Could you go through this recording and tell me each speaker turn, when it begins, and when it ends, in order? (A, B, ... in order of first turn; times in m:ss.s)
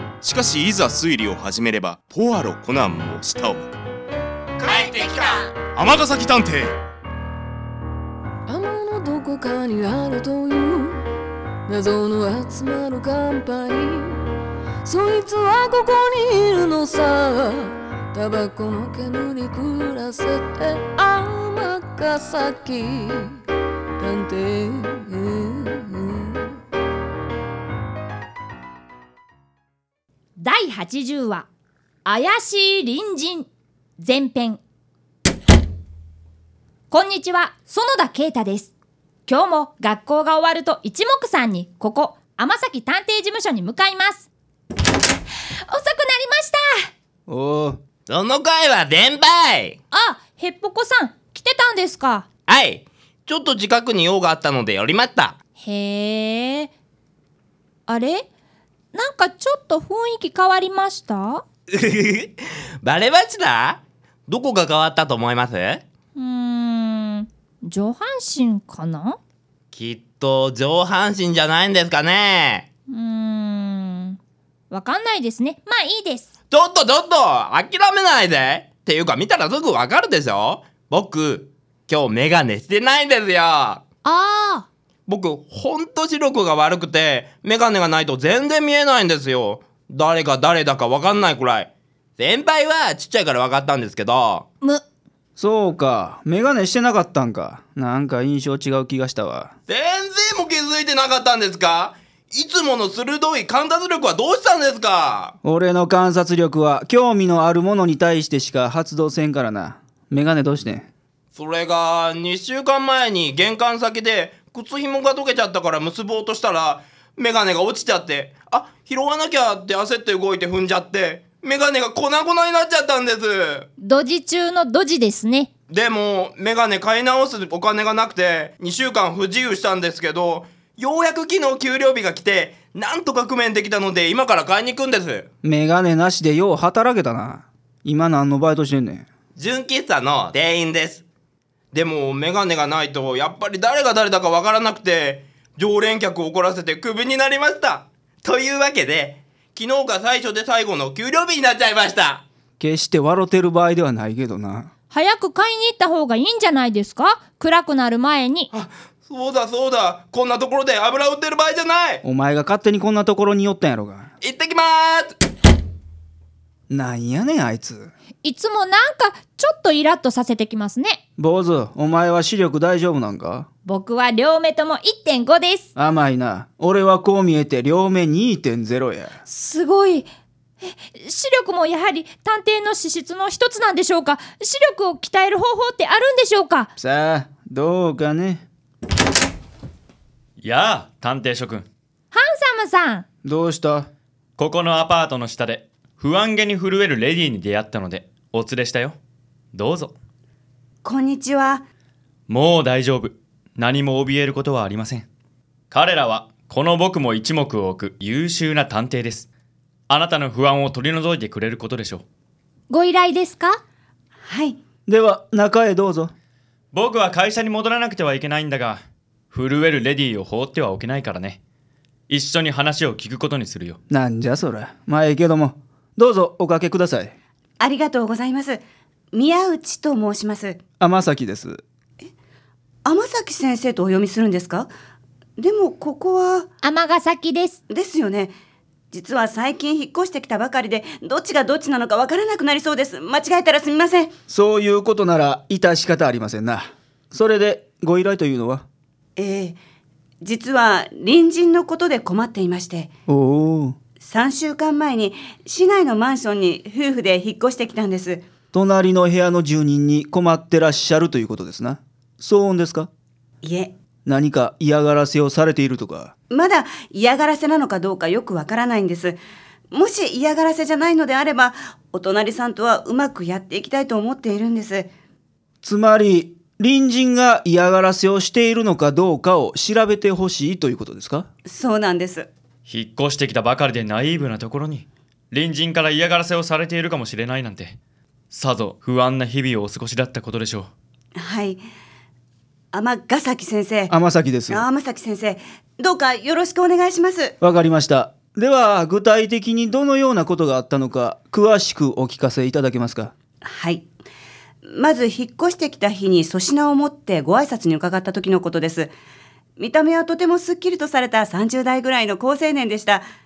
0:00.2-0:03.7 A
0:04.9-0:06.8 A
0:08.5-0:11.0 B
0:11.7-0:14.2 B
0:14.8-0:23.3 B
0:24.0-0:26.6 B
0:30.4-0:31.5 C
0:32.0-0:33.5 C
0:34.0-0:34.6 C
0:36.9-0:38.7 C
0:39.2-0:44.3 C
0:45.7-0:46.9 C
0:47.3-0:47.8 D
0:48.1-0:49.8 E
0:49.9-0:52.3 C
0:52.5-0:55.4 E
0:55.6-0:56.7 C
0:57.9-0:58.3 C
0:58.9-1:01.4 C
1:01.7-1:05.8 E
1:06.2-1:09.2 C
1:09.7-1:12.7 E
1:12.9-1:14.2 C
1:14.7-1:16.3 C
1:16.5-1:23.8 E
1:24.0-1:24.7 C
1:25.1-1:34.4 E
1:35.4-1:39.5 D
1:39.7-1:45.3 E
1:45.4-1:50.9 D
1:51.3-2:03.7 E
2:03.8-2:05.5 C
2:05.7-2:15.3 E
2:15.4-2:19.1 D
2:19.4-2:21.0 E
2:21.7-2:32.2 E
2:32.6-2:34.7 D
2:34.9-2:38.5 C
2:38.5-2:42.0 E
2:42.0-2:44.1 D
2:44.2-2:45.2 E
2:46.7-2:47.9 D
2:48.2-2:51.0 C
2:51.2-2:53.5 D
2:53.6-2:55.7 C
2:55.8-2:59.1 D
2:59.2-3:00.0 C
3:00.6-3:06.7 C
3:06.8-3:08.4 D
3:10.4-3:11.7 F
3:12.1-3:13.0 C
3:13.2-3:13.9 D
3:14.4-3:19.0 F
3:19.5-3:19.9 F
3:20.8-3:21.6 G
3:22.3-3:25.1 F
3:25.7-3:29.3 F
3:29.9-3:32.0 F
3:32.7-3:33.6 C
3:34.2-3:34.6 G
3:34.9-3:36.1 D
3:36.7-3:41.4 F
3:42.1-3:43.8 F
3:43.9-3:47.1 D
3:47.6-3:48.6 G
3:49.1-3:50.6 G
3:50.8-3:51.6 D
3:52.8-3:54.7 G
3:55.4-3:56.5 G
3:56.6-3:57.6 C
3:57.7-3:58.3 G
3:58.9-4:04.1 G
4:04.3-4:08.6 D
4:09.2-4:09.6 G
4:10.2-4:12.9 G
4:13.1-4:13.8 D
4:14.0-4:18.2 G
4:18.5-4:22.9 D
4:23.4-4:23.7 G
4:24.0-4:26.1 D
4:26.3-4:29.2 G
4:29.7-4:34.9 G
4:35.6-4:41.3 D
4:41.4-4:42.3 G
4:42.6-4:47.8 F
4:48.3-4:50.7 F
4:51.2-4:51.6 G
4:52.7-4:53.9 G
4:53.9-4:54.6 D
4:54.5-4:57.3 G
4:57.4-5:03.1 D
5:03.4-5:03.9 G
5:04.6-5:08.9 G
5:09.6-5:13.0 G